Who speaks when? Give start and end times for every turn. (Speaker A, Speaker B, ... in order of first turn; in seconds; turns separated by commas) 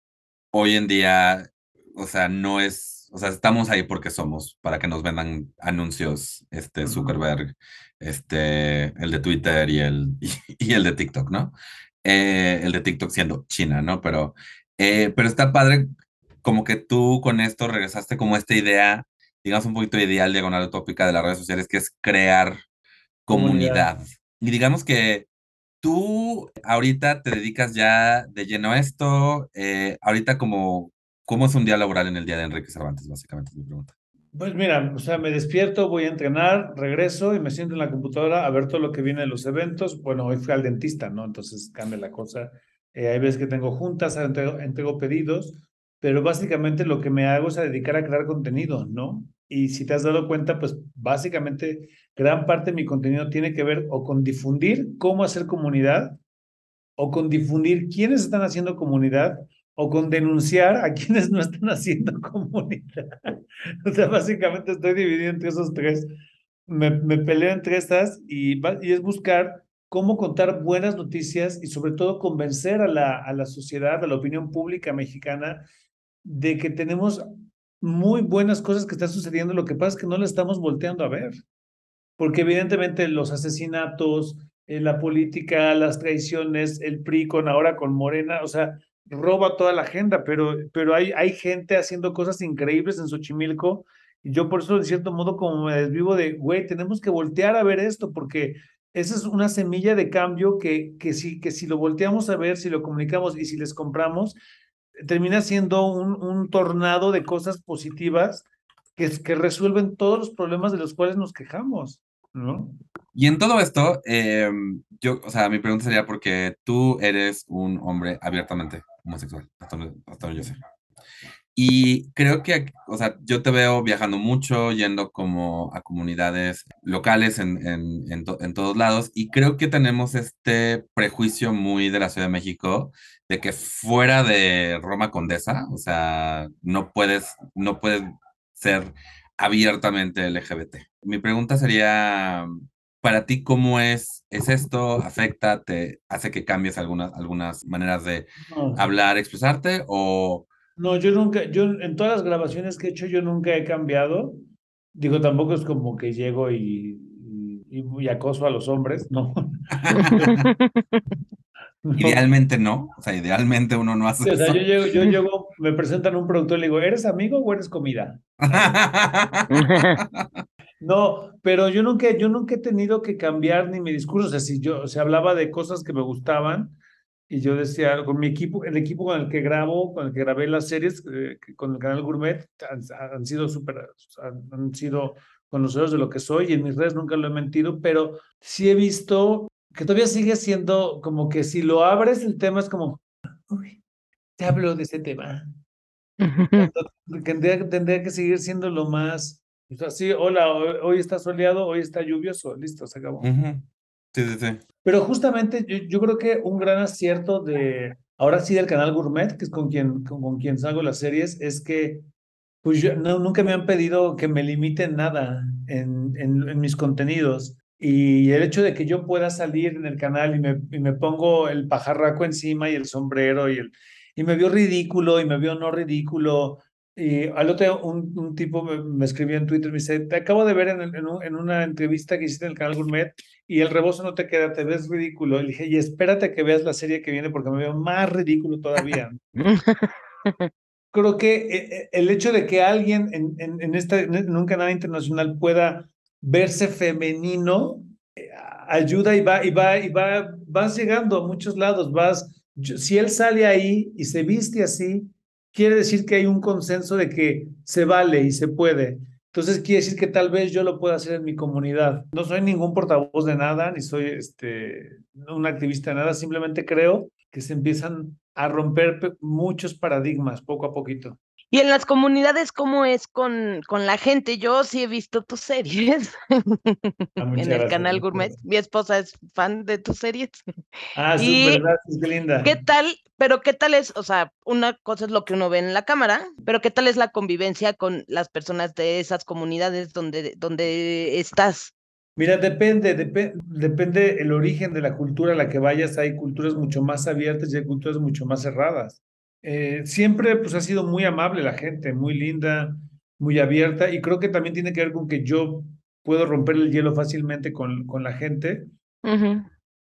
Speaker A: 0.5-15.9, Speaker B: 6.8-7.2, Speaker A: 16.4-22.6, Speaker A: 23.2-25.3, Speaker B: 23.3-23.9, Speaker A: 25.8-33.9, Speaker B: 34.3-56.2, Speaker B: 57.0-63.1, Speaker B: 63.9-66.1, Speaker B: 66.7-75.7, Speaker B: 76.2-77.2, Speaker B: 77.8-81.4, Speaker B: 82.2-104.4, Speaker B: 105.0-112.8, Speaker A: 113.1-120.6, Speaker A: 121.5-142.5, Speaker A: 143.0-150.5, Speaker B: 148.5-148.8, Speaker B: 150.8-154.4, Speaker B: 154.9-160.3, Speaker A: 159.7-160.5, Speaker C: 160.0-161.0, Speaker B: 161.8-162.2, Speaker A: 162.0-164.7, Speaker B: 164.2-168.8, Speaker A: 168.4-170.4, Speaker C: 169.5-170.0, Speaker B: 170.8-176.8, Speaker B: 177.3-193.8, Speaker B: 194.4-195.5, Speaker C: 196.2-196.7, Speaker B: 196.6-203.3, Speaker A: 203.2-204.6, Speaker B: 204.8-212.0, Speaker B: 212.6-239.2, Speaker C: 239.4-240.5, Speaker B: 240.9-271.2, Speaker C: 271.5-280.4, Speaker B: 277.2-278.4, Speaker B: 280.9-282.6, Speaker C: 281.2-281.6, Speaker C: 282.4-291.7, Speaker B: 292.2-308.7, Speaker C: 309.0-309.5